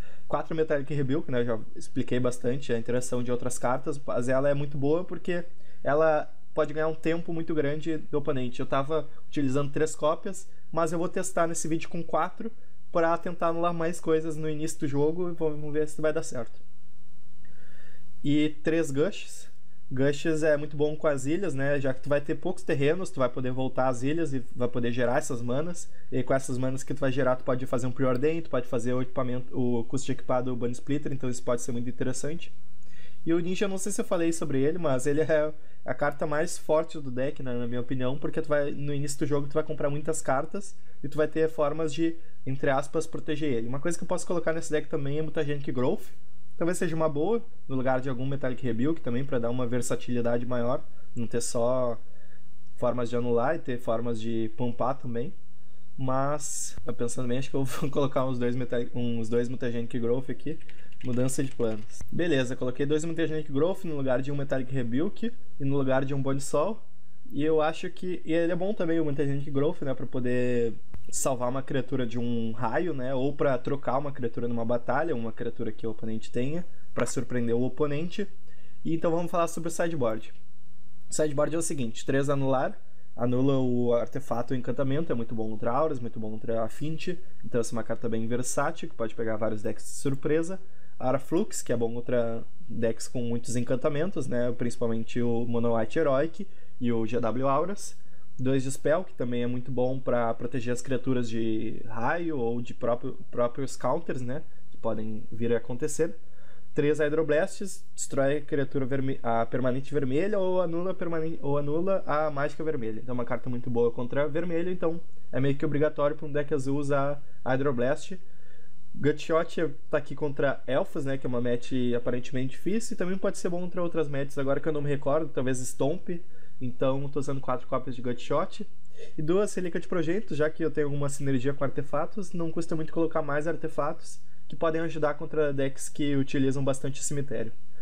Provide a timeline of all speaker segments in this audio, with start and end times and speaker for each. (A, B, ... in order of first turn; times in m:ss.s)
0:00.3-0:16.6 A
0:18.2-0:32.5 A
0:33.2-0:52.0 A
0:52.8-0:55.3 A
0:56.0-1:18.3 A
1:18.8-1:20.4 A
1:21.1-1:46.2 A
1:46.7-1:58.2 A
1:58.9-2:08.7 A
2:09.2-2:17.5 A